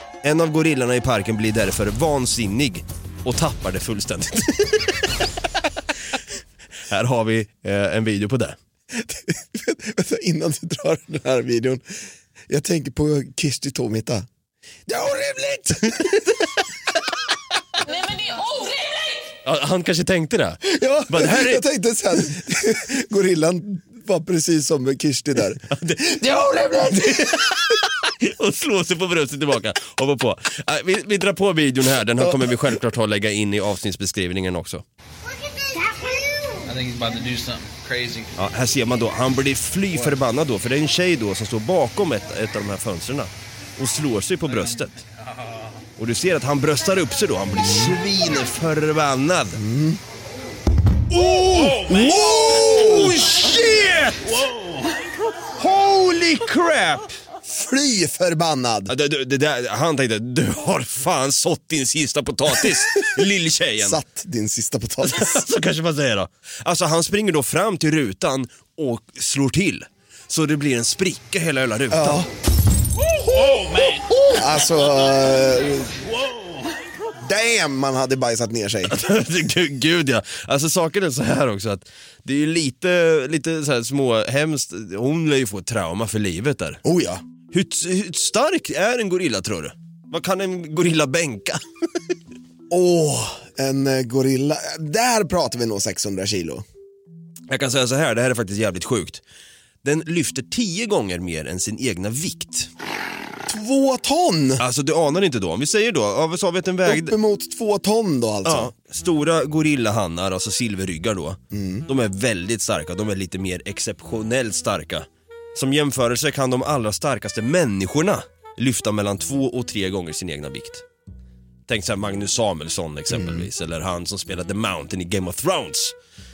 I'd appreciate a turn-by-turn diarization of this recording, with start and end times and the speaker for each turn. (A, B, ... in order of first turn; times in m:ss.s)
0:00.2-0:05.1 A
0:06.9-0:08.6 A
0:08.9-0:14.3 B
0:14.9-0:16.3 B
0:19.4-0:21.6 A
0:20.6-0:27.6 B
0:25.7-0:34.8 A
0:32.2-0:32.6 B
0:38.3-0:45.0 A
0:46.0-0:49.6 A
0:49.5-0:50.0 B
0:51.1-0:54.8 A
0:51.9-0:53.2 B
0:55.4-0:57.2 A
0:57.4-0:58.9 B
0:58.9-1:04.0 A
1:03.8-1:05.4 B
1:05.0-1:12.2 A
1:11.9-1:12.3 B
1:13.4-1:14.2 A
1:13.4-1:16.0 B
1:17.1-1:18.9 B
1:18.8-1:26.8 A
1:26.8-1:27.2 B
1:27.5-1:31.6 A
1:32.7-1:36.6 B
1:37.5-1:39.2 A
1:39.8-1:42.7 A
1:43.5-1:44.6 B
1:44.6-1:47.2 A
1:46.8-1:48.7 B
1:48.4-2:00.8 A
1:51.5-1:51.9 B
2:01.7-2:05.9 A
2:03.1-2:03.5 B